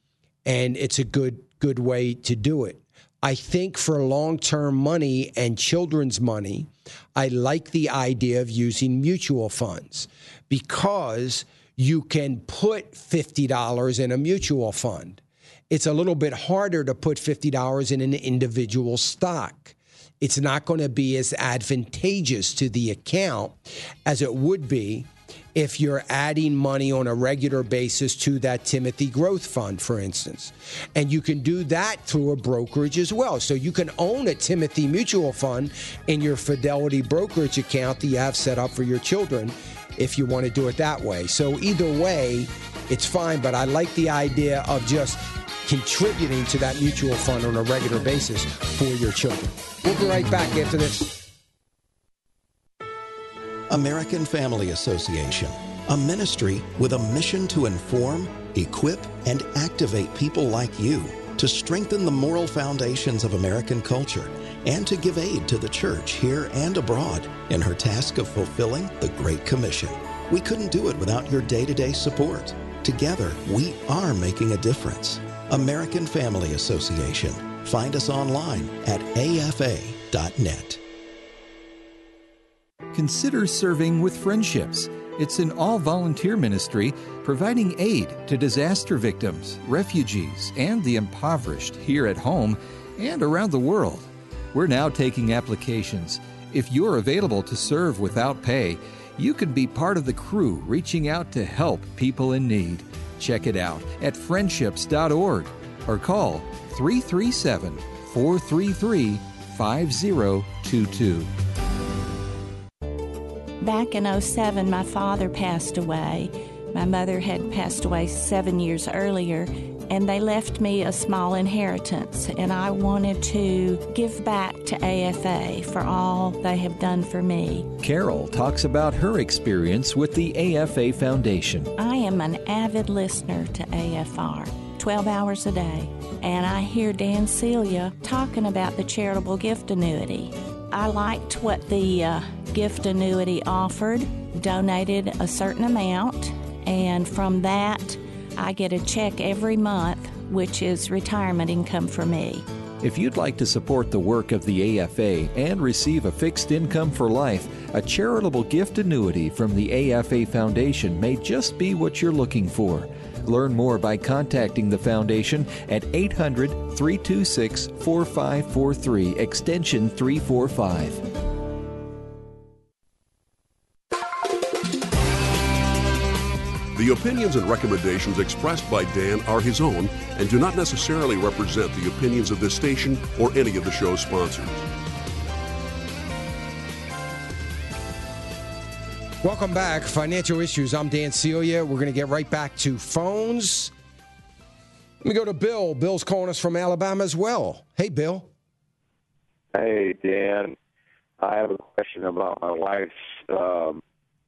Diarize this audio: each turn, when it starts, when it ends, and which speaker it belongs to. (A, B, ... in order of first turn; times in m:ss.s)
0:00.4-0:51.2 A
0:53.7-1:20.8 B
1:22.9-1:51.3 C
1:53.6-2:07.7 D
2:07.8-2:11.7 C
2:11.8-2:32.4 D
2:32.8-2:51.0 C
2:56.7-3:04.6 E
3:09.2-3:13.7 A
3:15.0-3:18.3 A
3:19.5-3:20.5 F
3:21.2-3:23.8 F